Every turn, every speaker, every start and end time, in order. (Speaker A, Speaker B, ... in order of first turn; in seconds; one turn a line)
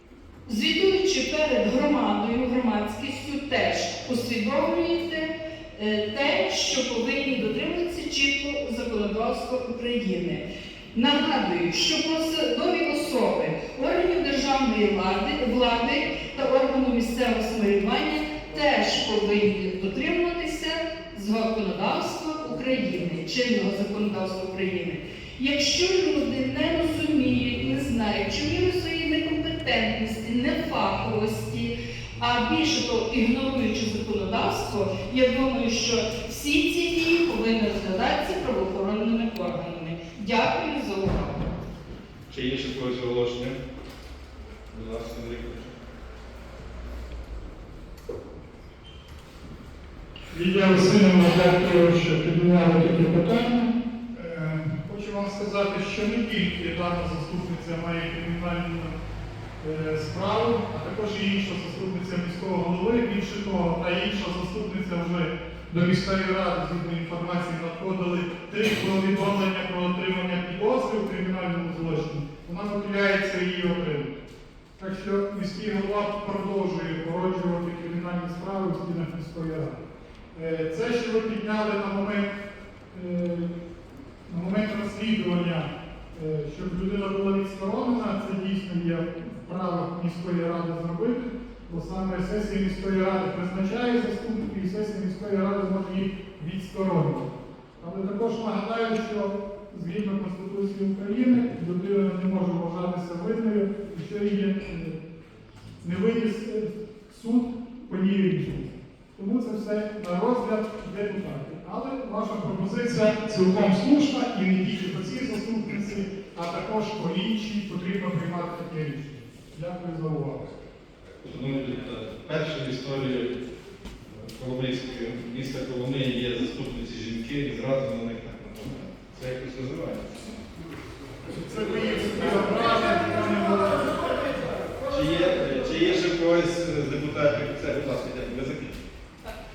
Speaker A: 0.5-41.5
Speaker B: 42.3-43.6
Speaker B: 44.7-45.7
Speaker C: 50.3-58.9
Speaker C: 59.6-74.2
Speaker C: 74.8-79.8
Speaker C: 80.3-82.3
Speaker C: 82.9-83.5
Speaker C: 84.3-97.3
Speaker C: 97.8-105.0
Speaker C: 105.8-120.5
Speaker B: 121.2-123.3
Speaker B: 124.1-130.3
Speaker C: 131.3-134.2
Speaker B: 134.9-138.8